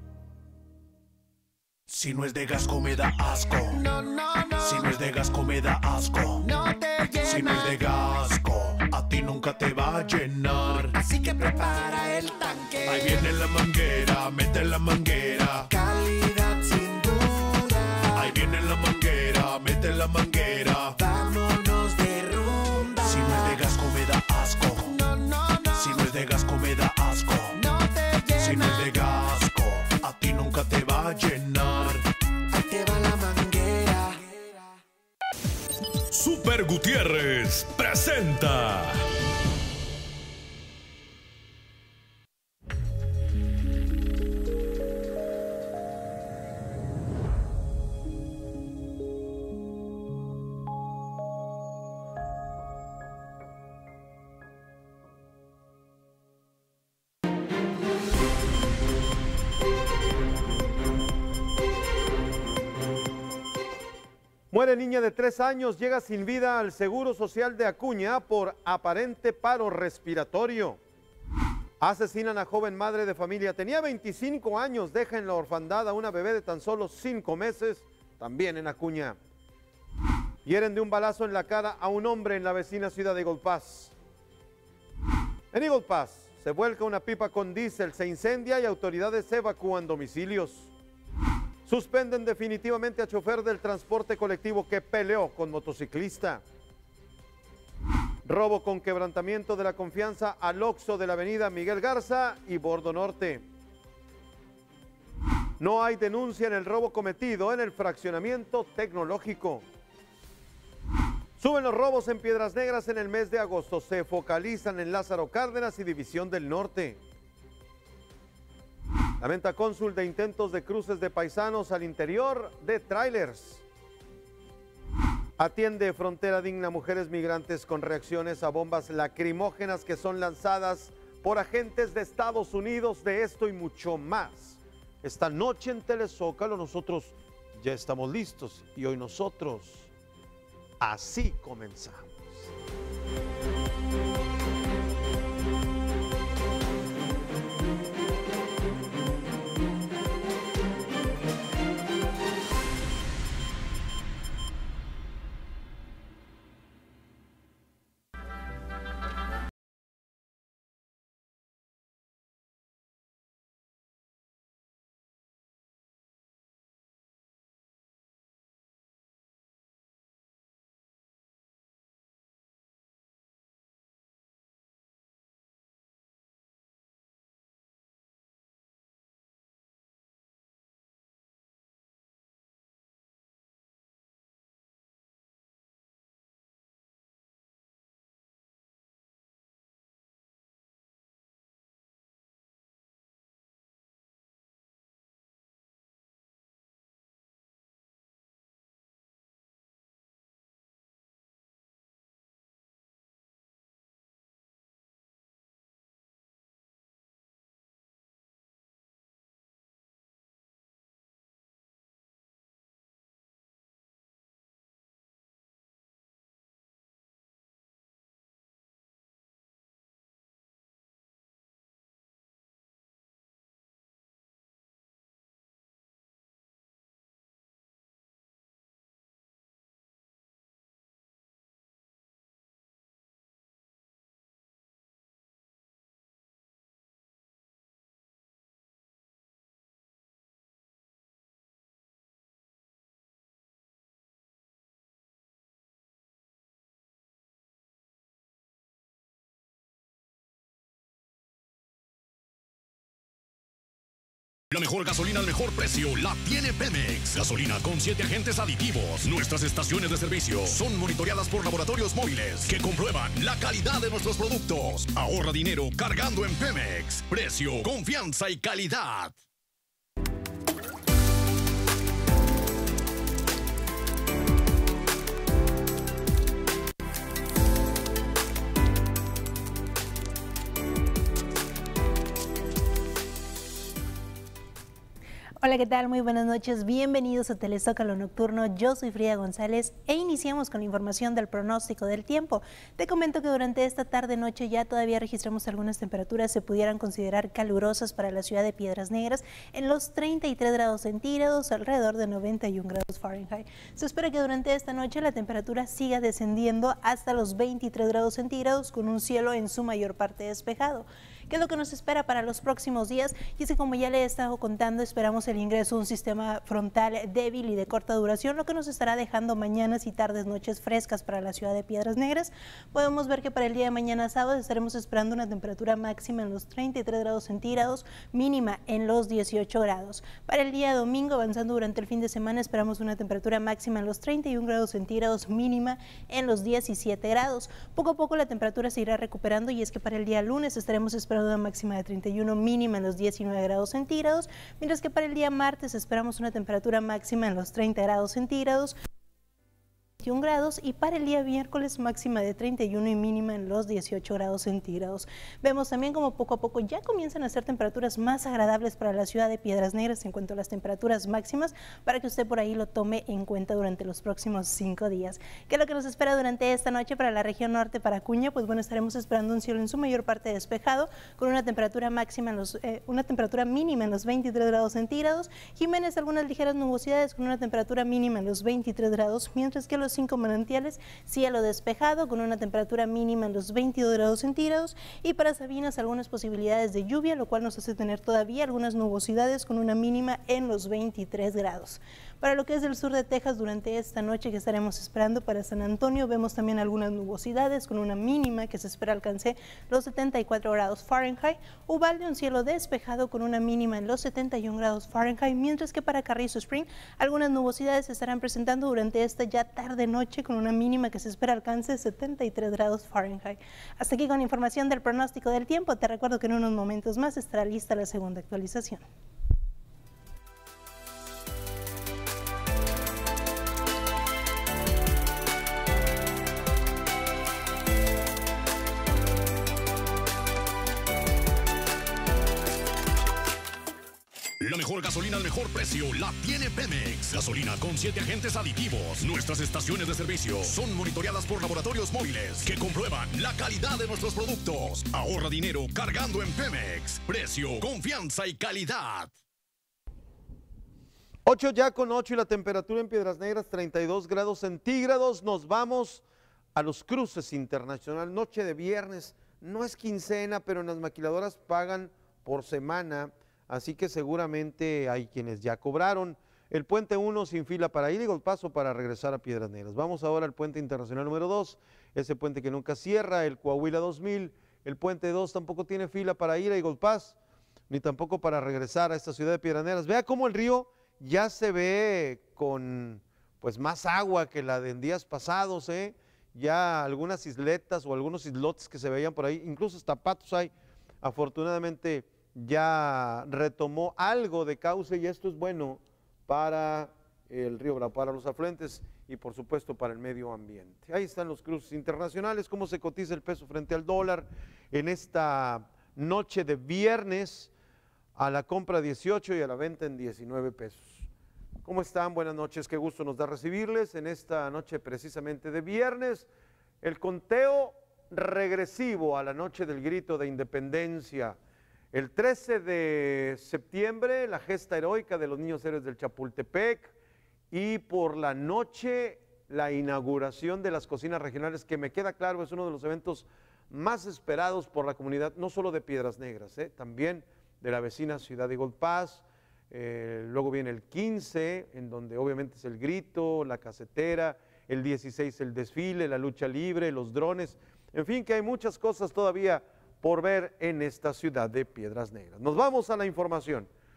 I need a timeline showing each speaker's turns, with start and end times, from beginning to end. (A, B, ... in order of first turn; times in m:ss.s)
0:01.9-0:03.8 A
0:03.7-0:04.9 B
0:04.6-0:06.4 A
0:06.4-0:07.8 B
0:07.2-0:10.9 A
0:11.0-0:13.3 B
0:12.9-0:15.7 A
0:15.7-0:18.3 B
0:18.2-0:21.0 A
0:21.0-0:23.6 B
0:23.0-0:25.0 A
0:24.8-0:26.0 B
0:25.8-0:27.6 A
0:27.5-0:28.9 B
0:28.4-0:32.0 A
0:32.5-0:34.8 B
0:36.4-0:37.3 C
0:38.2-0:38.6 C
1:04.5-1:10.8 D
1:11.8-1:19.2 D
1:20.4-1:23.9 D
1:25.5-1:30.7 D
1:31.7-1:36.4 D
1:38.2-1:43.5 D
1:45.6-1:49.6 D
1:51.4-1:57.0 D
1:59.2-2:03.6 D
2:05.4-2:19.9 D
2:20.8-2:22.5 D
4:14.5-4:29.2 C
4:45.4-5:48.8 E
5:50.0-6:58.9 E
7:14.4-7:29.1 C
7:31.2-7:36.0 D
7:36.6-7:57.2 D
7:57.7-8:27.5 D
8:28.2-8:31.1 D
8:31.6-8:36.3 D
8:36.8-8:41.4 D
8:41.9-8:46.9 D
8:47.5-9:13.7 D